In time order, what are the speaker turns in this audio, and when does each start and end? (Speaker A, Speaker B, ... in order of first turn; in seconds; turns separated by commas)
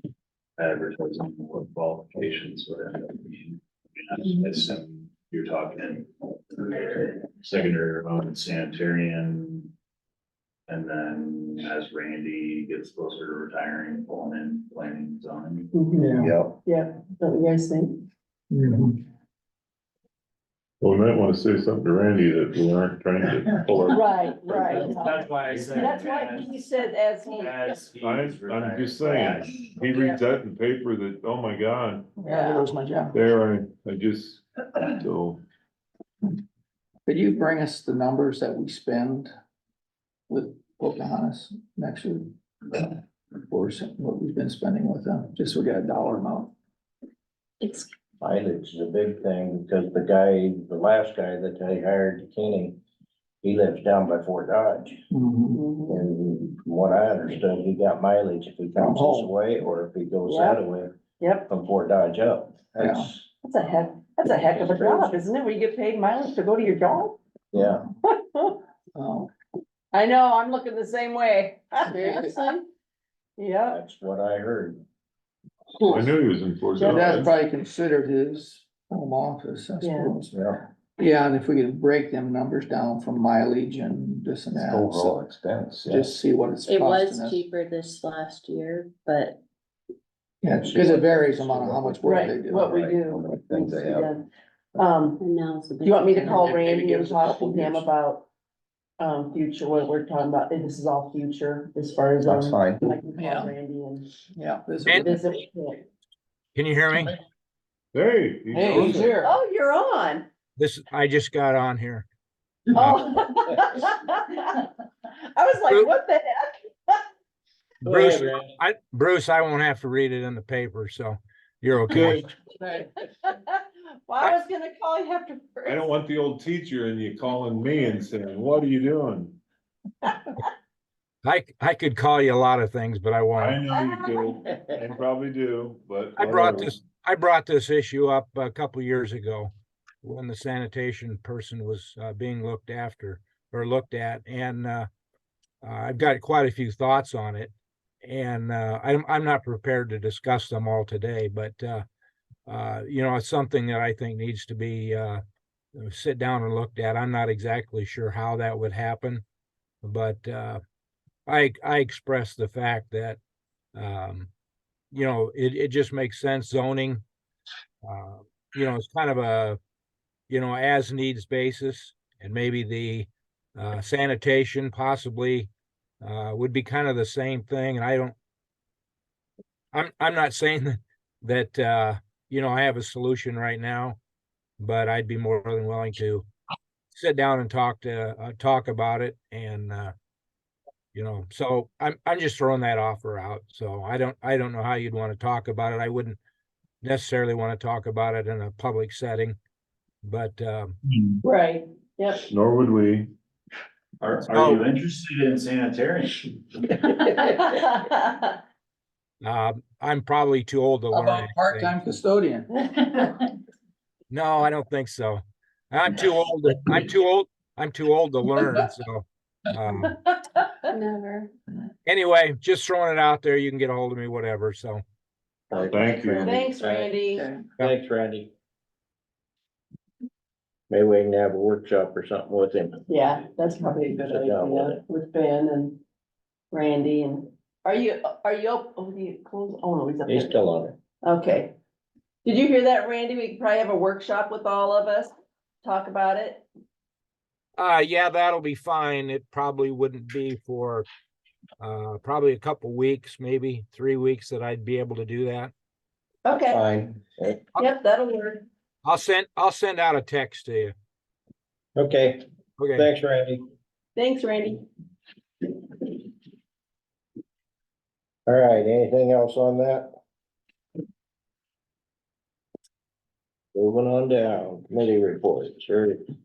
Speaker A: 0.6-9.7, Speaker A: 10.7-15.7, Speaker B: 15.7-18.1, Speaker C: 16.0-16.3, Speaker D: 16.1-16.6, Speaker C: 18.5-19.0, Speaker E: 20.8-24.0, Speaker B: 23.8-27.9, Speaker A: 24.5-26.6, Speaker A: 27.3-30.1, Speaker E: 28.0-32.2, Speaker B: 32.2-32.7, Speaker C: 32.2-33.2, Speaker E: 33.1-35.4, Speaker C: 37.1-39.3, Speaker C: 40.3-46.5, Speaker F: 47.6-47.9, Speaker D: 48.2-52.8, Speaker D: 53.4-55.0, Speaker C: 55.1-55.6, Speaker B: 55.5-56.0, Speaker D: 55.9-63.3, Speaker C: 58.8-59.3, Speaker B: 60.3-60.6, Speaker B: 61.2-61.5, Speaker C: 62.8-63.1, Speaker B: 63.4-67.2, Speaker D: 64.5-65.2, Speaker D: 67.5-67.9, Speaker B: 68.1-68.6, Speaker C: 69.0-69.3, Speaker B: 69.9-72.7, Speaker C: 71.9-72.4, Speaker B: 73.4-73.8, Speaker D: 73.7-74.8, Speaker B: 75.8-76.1, Speaker E: 75.8-77.3, Speaker C: 76.8-80.3, Speaker B: 76.8-77.1, Speaker B: 79.8-80.2, Speaker D: 80.3-80.6, Speaker C: 81.0-85.2, Speaker D: 84.5-86.1, Speaker C: 85.9-87.5, Speaker F: 86.7-89.4, Speaker C: 90.4-92.7, Speaker D: 90.6-94.1, Speaker B: 92.0-95.2, Speaker F: 95.2-96.3, Speaker B: 95.8-98.3, Speaker C: 96.1-97.9, Speaker B: 99.0-104.1, Speaker D: 102.2-102.8, Speaker C: 103.1-103.5, Speaker C: 104.3-105.4, Speaker B: 105.0-105.8, Speaker G: 106.5-107.2, Speaker E: 107.9-109.1, Speaker C: 108.5-109.3, Speaker B: 108.8-110.3, Speaker G: 110.6-112.1, Speaker G: 112.7-113.2, Speaker B: 112.8-114.7, Speaker B: 115.3-117.0, Speaker D: 117.8-118.5, Speaker G: 117.8-122.3, Speaker C: 122.6-122.9, Speaker B: 122.8-125.8, Speaker E: 125.7-129.4, Speaker G: 131.2-133.6, Speaker E: 133.4-136.7, Speaker G: 136.2-139.5, Speaker G: 140.0-144.9, Speaker G: 145.6-147.5, Speaker G: 148.0-151.8, Speaker G: 152.5-155.2, Speaker G: 155.8-159.2, Speaker G: 159.8-160.6, Speaker G: 161.3-163.2, Speaker G: 163.8-164.3, Speaker G: 164.9-167.0, Speaker G: 167.8-169.6, Speaker G: 170.3-175.5, Speaker G: 176.0-178.2, Speaker G: 179.7-184.0, Speaker G: 184.6-186.3, Speaker G: 186.9-189.9, Speaker G: 190.9-196.2, Speaker G: 196.8-199.4, Speaker G: 200.0-200.8, Speaker B: 201.2-202.2, Speaker E: 202.3-203.1, Speaker A: 204.0-206.2, Speaker G: 204.3-204.7, Speaker B: 207.0-208.3, Speaker G: 209.2-211.8, Speaker C: 210.9-212.6, Speaker G: 214.1-220.0, Speaker F: 220.7-221.3, Speaker G: 221.9-224.8, Speaker D: 225.5-228.3, Speaker E: 225.6-226.3, Speaker B: 226.2-227.3, Speaker D: 230.7-233.1, Speaker B: 232.9-235.8, Speaker D: 234.0-234.8, Speaker B: 236.5-240.4, Speaker D: 240.1-240.8, Speaker B: 241.0-241.6, Speaker B: 242.2-245.1, Speaker B: 245.6-246.5, Speaker G: 247.6-250.9, Speaker G: 251.6-255.5, Speaker B: 256.2-256.6, Speaker D: 256.4-257.5, Speaker B: 257.6-258.4, Speaker G: 258.8-260.7, Speaker D: 261.8-263.4, Speaker G: 262.6-262.9, Speaker B: 264.0-264.7, Speaker D: 268.3-269.9, Speaker D: 273.5-276.0